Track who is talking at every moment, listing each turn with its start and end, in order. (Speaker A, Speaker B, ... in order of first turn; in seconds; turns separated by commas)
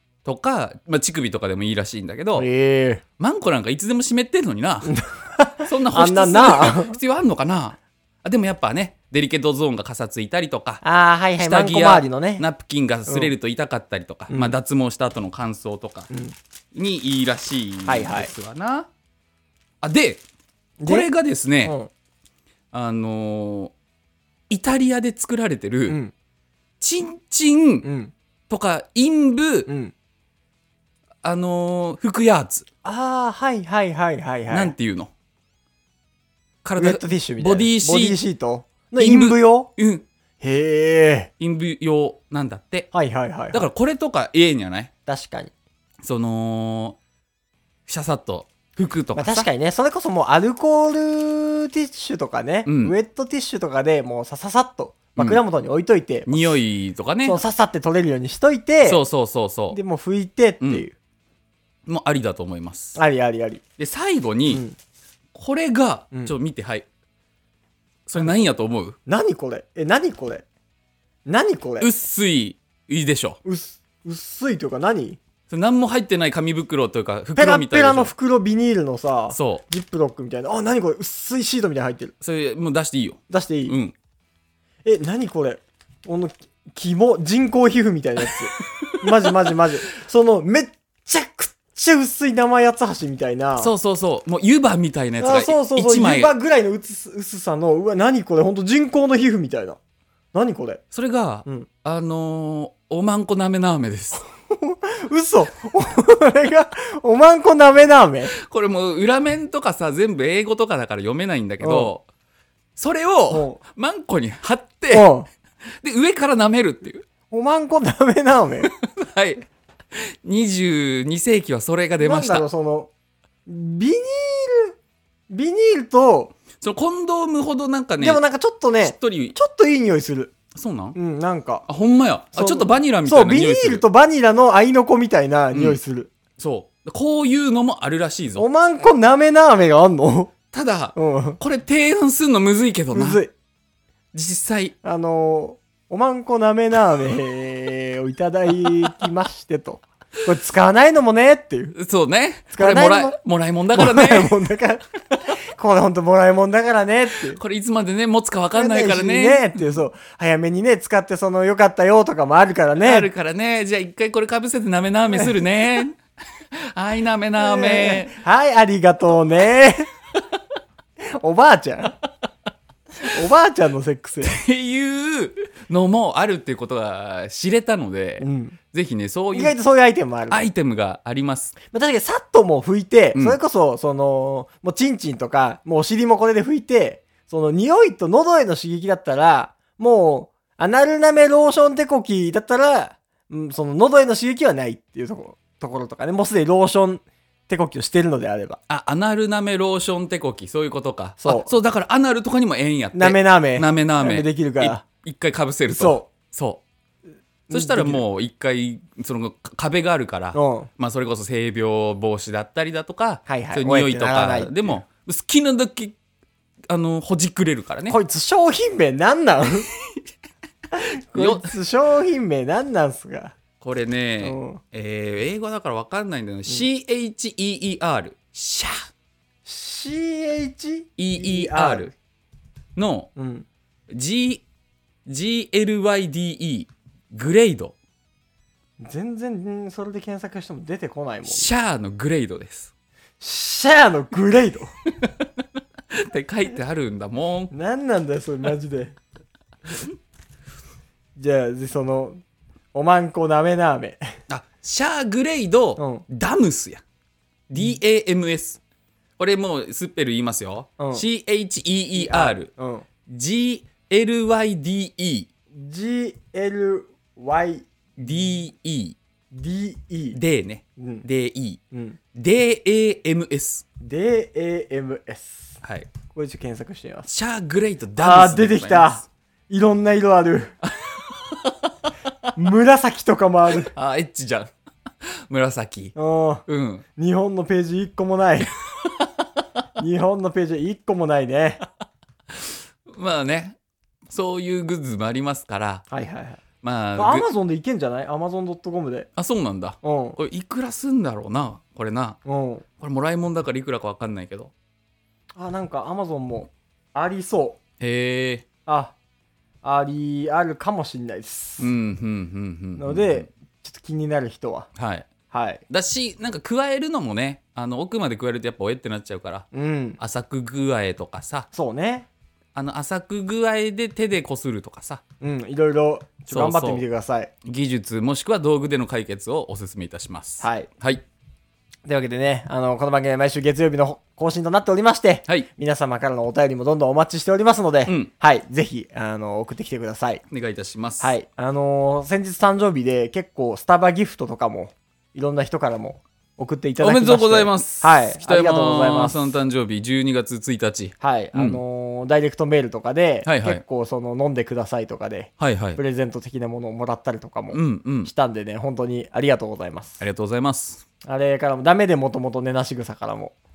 Speaker A: 0.2-2.5, Speaker B: 2.4-3.0, Speaker A: 3.2-5.0, Speaker B: 4.9-7.0, Speaker A: 5.6-10.8, Speaker B: 10.8-12.4, Speaker A: 11.4-16.1, Speaker B: 14.3-14.5, Speaker B: 16.1-16.4, Speaker A: 16.7-18.9, Speaker B: 17.9-18.3, Speaker A: 19.8-20.2, Speaker B: 20.8-21.1, Speaker A: 20.8-21.8, Speaker B: 21.6-21.9, Speaker A: 22.7-23.7, Speaker A: 24.5-26.0, Speaker B: 25.9-26.1, Speaker A: 26.8-27.9, Speaker B: 27.8-28.1, Speaker A: 28.5-29.7, Speaker B: 29.7-29.9, Speaker A: 31.2-32.6, Speaker B: 32.8-34.7, Speaker A: 34.5-35.1, Speaker A: 36.6-38.2, Speaker B: 36.8-39.7, Speaker A: 39.0-40.0, Speaker B: 40.4-41.3, Speaker A: 41.4-42.9, Speaker B: 42.9-43.7, Speaker A: 43.5-44.9, Speaker B: 45.0-45.5, Speaker A: 46.0-47.0, Speaker A: 47.9-49.5, Speaker B: 49.1-56.6, Speaker A: 52.6-53.0, Speaker A: 55.1-55.4, Speaker A: 56.3-57.4, Speaker B: 57.2-59.0, Speaker A: 58.8-59.8, Speaker B: 59.7-60.9, Speaker A: 61.9-63.0, Speaker B: 63.0-63.6, Speaker A: 63.8-64.6, Speaker A: 65.3-66.8, Speaker A: 68.1-69.0, Speaker B: 69.1-70.4, Speaker B: 71.2-71.9, Speaker A: 71.8-73.4, Speaker B: 73.4-75.2, Speaker A: 75.5-78.1, Speaker B: 77.3-82.1, Speaker A: 79.3-79.6, Speaker A: 82.2-83.9, Speaker B: 83.3-83.7, Speaker B: 84.8-93.7, Speaker A: 88.3-89.3, Speaker A: 93.6-96.3, Speaker B: 95.2-99.8, Speaker B: 100.3-100.8, Speaker A: 100.9-104.2, Speaker B: 104.5-108.3, Speaker A: 108.3-112.0, Speaker B: 111.6-111.9, Speaker A: 112.8-115.1, Speaker B: 113.3-113.6, Speaker B: 114.9-115.3, Speaker A: 115.8-117.0, Speaker B: 117.3-118.7, Speaker A: 118.6-122.5, Speaker B: 122.0-122.9, Speaker B: 123.5-124.7, Speaker B: 125.3-126.3, Speaker A: 126.6-128.2, Speaker B: 128.0-130.3, Speaker A: 128.8-129.3, Speaker A: 130.5-130.9, Speaker B: 130.9-131.6, Speaker A: 131.7-133.8, Speaker B: 132.3-136.1, Speaker A: 135.5-135.8, Speaker A: 136.4-138.4, Speaker B: 138.4-140.3, Speaker A: 140.5-143.2, Speaker B: 140.9-141.4, Speaker B: 142.9-143.3, Speaker A: 144.1-144.7, Speaker B: 144.8-151.7, Speaker A: 151.7-154.4, Speaker B: 152.5-153.2, Speaker B: 153.7-157.4, Speaker A: 157.3-159.8, Speaker B: 158.5-163.1, Speaker A: 162.8-166.0, Speaker A: 166.6-168.2, Speaker B: 167.4-169.9, Speaker B: 171.0-171.9, Speaker B: 173.0-174.4, Speaker A: 174.2-179.6, Speaker B: 178.2-178.6, Speaker B: 179.3-180.4, Speaker A: 180.3-181.6, Speaker B: 181.7-198.6, Speaker A: 198.7-206.6, Speaker B: 201.2-201.5, Speaker B: 202.9-204.8, Speaker B: 205.7-206.1, Speaker A: 207.5-215.9, Speaker B: 207.5-208.0, Speaker B: 210.3-210.7, Speaker B: 213.3-214.8, Speaker A: 216.7-218.0, Speaker B: 217.9-219.7, Speaker A: 220.8-221.5, Speaker B: 220.8-223.3, Speaker A: 223.6-228.8, Speaker B: 224.2-224.6, Speaker B: 229.4-231.9, Speaker A: 231.0-231.9, Speaker A: 232.8-233.1, Speaker B: 233.2-233.5, Speaker A: 233.9-234.4, Speaker A: 235.1-237.8, Speaker B: 238.8-241.5, Speaker A: 241.2-242.7, Speaker B: 243.2-244.7, Speaker A: 245.0-245.3, Speaker A: 246.0-247.5, Speaker B: 247.5-248.9, Speaker B: 251.2-252.2, Speaker B: 252.7-254.0, Speaker A: 254.3-256.8, Speaker B: 255.8-256.0, Speaker A: 257.5-258.6, Speaker A: 259.2-262.5, Speaker B: 260.8-261.0, Speaker B: 262.0-262.9, Speaker A: 263.1-265.3, Speaker B: 265.5-267.6, Speaker A: 268.0-269.0, Speaker B: 269.3-270.2, Speaker A: 270.1-271.6, Speaker B: 270.8-271.0, Speaker B: 271.7-272.0, Speaker A: 272.1-273.6, Speaker B: 273.8-275.6, Speaker A: 275.6-275.9, Speaker B: 276.1-277.1, Speaker A: 277.1-279.1, Speaker B: 278.0-280.5, Speaker A: 280.6-281.7, Speaker B: 282.4-283.7, Speaker A: 283.6-284.5, Speaker A: 285.3-285.9, Speaker B: 285.9-286.4, Speaker A: 286.5-286.8, Speaker B: 287.0-288.5, Speaker B: 289.8-291.6, Speaker A: 292.4-293.6, Speaker A: 294.1-295.8, Speaker B: 295.9-296.4, Speaker A: 296.6-297.3, Speaker B: 297.0-299.1, Speaker A: 299.1-302.2, Speaker B: 299.8-300.2, Speaker B: 302.2-302.6, Speaker A: 302.8-304.5, Speaker B: 305.3-307.6, Speaker A: 307.8-308.4, Speaker B: 308.6-308.9, Speaker B: 309.6-311.7, Speaker A: 311.6-313.3, Speaker B: 312.8-314.7, Speaker A: 314.8-315.1, Speaker B: 315.3-315.6, Speaker A: 315.7-319.5, Speaker B: 319.5-320.0, Speaker A: 320.0-321.5, Speaker B: 321.5-322.1, Speaker A: 322.5-325.0, Speaker B: 325.2-327.3, Speaker A: 326.3-326.8, Speaker A: 327.4-331.0, Speaker B: 330.4-330.7, Speaker B: 331.8-340.2, Speaker A: 337.9-338.1, Speaker A: 340.3-341.1, Speaker B: 341.0-349.4, Speaker A: 346.8-351.6, Speaker B: 351.0-360.0, Speaker A: 353.2-353.6, Speaker A: 355.4-355.8, Speaker A: 357.5-358.1, Speaker A: 360.0-360.8, Speaker B: 361.0-363.3